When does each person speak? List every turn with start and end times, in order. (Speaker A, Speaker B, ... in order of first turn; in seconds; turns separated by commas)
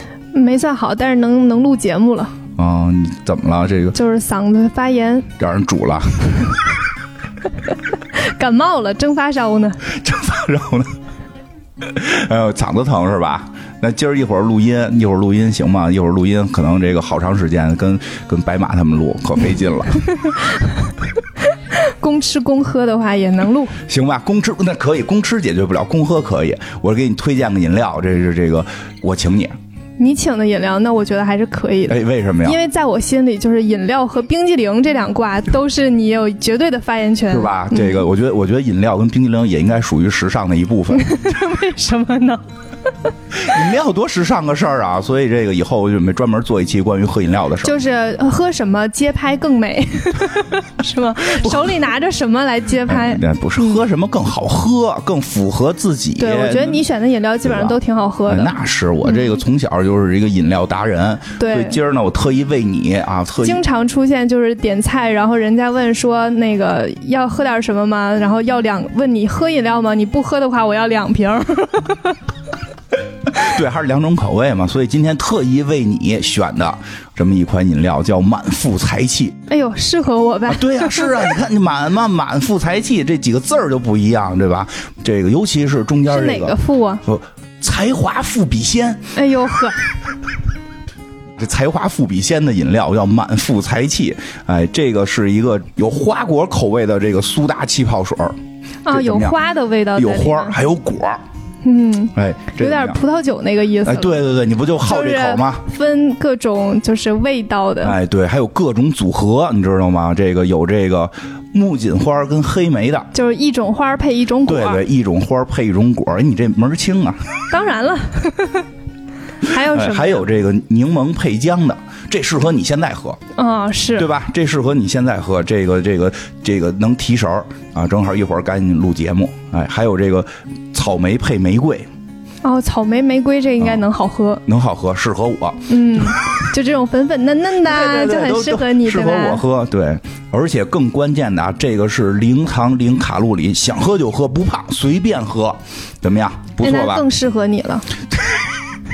Speaker A: 0.3-2.3, Speaker B: 2.5-3.9, Speaker A: 3.9-5.3, Speaker B: 5.4-6.6, Speaker A: 8.1-9.8, Speaker B: 9.8-10.9, Speaker B: 11.8-20.1, Speaker A: 21.8-23.7, Speaker B: 23.9-29.5, Speaker A: 30.0-38.0, Speaker B: 31.9-32.6, Speaker B: 37.3-41.1, Speaker A: 40.9-42.4, Speaker B: 43.3-47.8, Speaker A: 47.6-53.8, Speaker B: 51.4-51.8, Speaker B: 52.9-56.8, Speaker A: 56.2-58.5, Speaker B: 57.4-63.6, Speaker A: 59.0-59.3, Speaker A: 61.4-61.8, Speaker A: 63.4-72.2, Speaker B: 73.2-79.3, Speaker A: 79.5-81.3, Speaker B: 80.5-89.0, Speaker A: 86.1-87.0, Speaker A: 89.1-89.8, Speaker B: 91.4-99.3, Speaker A: 98.8-100.5, Speaker B: 100.0-101.2, Speaker A: 101.6-104.2, Speaker B: 102.1-103.0, Speaker B: 103.8-105.6, Speaker A: 104.8-108.0, Speaker B: 107.8-113.1, Speaker A: 113.1-114.8, Speaker B: 114.5-117.5, Speaker A: 117.5-118.7, Speaker A: 119.4-120.3, Speaker B: 119.5-123.2, Speaker A: 123.3-124.1, Speaker B: 124.0-131.9, Speaker A: 132.4-134.4, Speaker B: 134.5-136.2, Speaker A: 135.7-139.4, Speaker B: 137.6-147.0, Speaker A: 146.6-147.9, Speaker B: 148.1-148.6